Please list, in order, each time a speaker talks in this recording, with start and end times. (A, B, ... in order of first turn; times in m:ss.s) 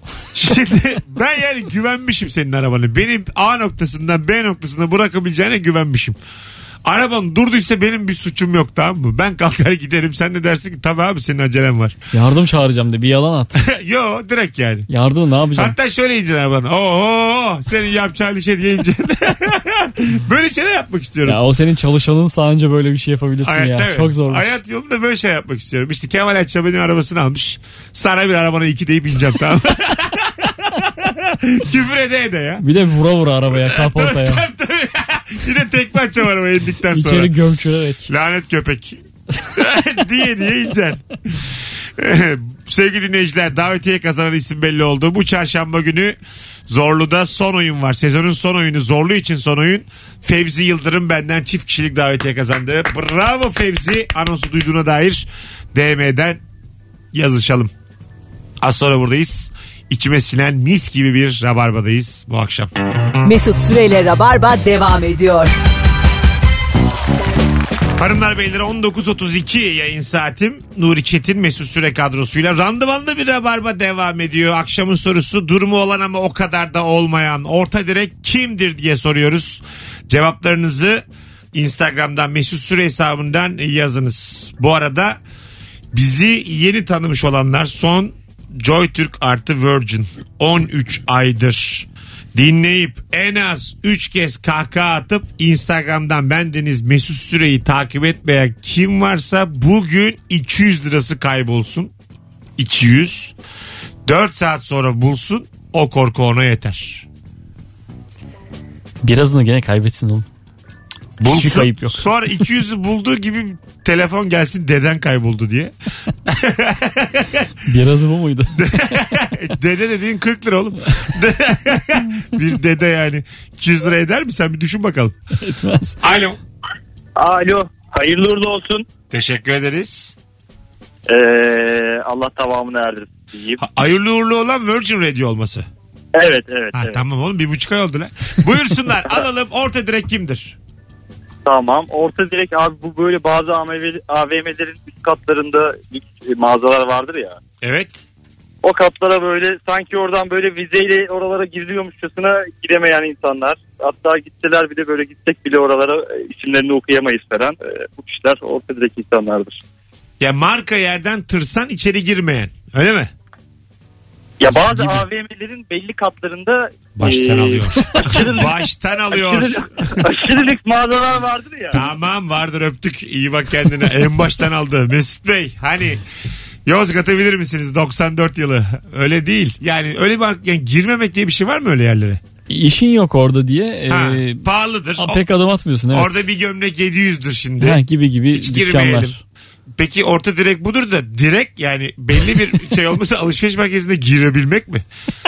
0:00.3-0:06.2 A
0:06.8-0:12.0 A
0:12.1-0:13.6 B
0:13.6-0:14.9 A
0:14.9-0:15.8 B
0:15.6-0:21.4 A
0:21.2-0:24.5 B
0:23.4-0:32.6 A
0:32.6-0:34.4 B
0:33.5-0:37.3 A
0:36.9-0:38.1 B
0:38.1-0:56.4 A
0:57.1-0:57.7 A
0:58.6-1:02.7 A
1:03.2-1:05.5 C
1:08.0-1:25.2 A
1:25.9-1:41.9 A
1:42.6-1:43.4 A
1:44.1-1:47.1 A
1:49.0-1:50.3 B
1:51.2-1:55.7 A
1:51.2-1:52.1 B
1:56.3-1:57.5 A
1:57.7-1:59.0 B
1:58.6-2:05.2 A
2:05.4-2:06.0 B
2:06.0-2:06.4 A
2:07.2-2:08.8 D
2:09.1-2:10.2 A
2:11.1-2:13.6 D
2:13.6-2:15.7 A
2:16.2-2:17.0 D
2:16.7-2:20.6 A
2:21.5-2:27.4 D
2:27.6-2:28.0 A
2:28.6-2:39.6 D
2:40.2-2:43.1 A
2:44.4-2:48.6 D
2:44.6-2:45.0 A
2:47.0-2:49.9 A
2:49.1-2:51.8 D
2:51.7-2:56.0 A
2:56.7-3:02.2 A
3:02.5-3:04.4 B
3:03.9-3:05.2 A
3:05.0-3:06.2 B
3:05.9-3:09.2 A
3:07.6-3:09.2 B
3:09.8-3:14.8 A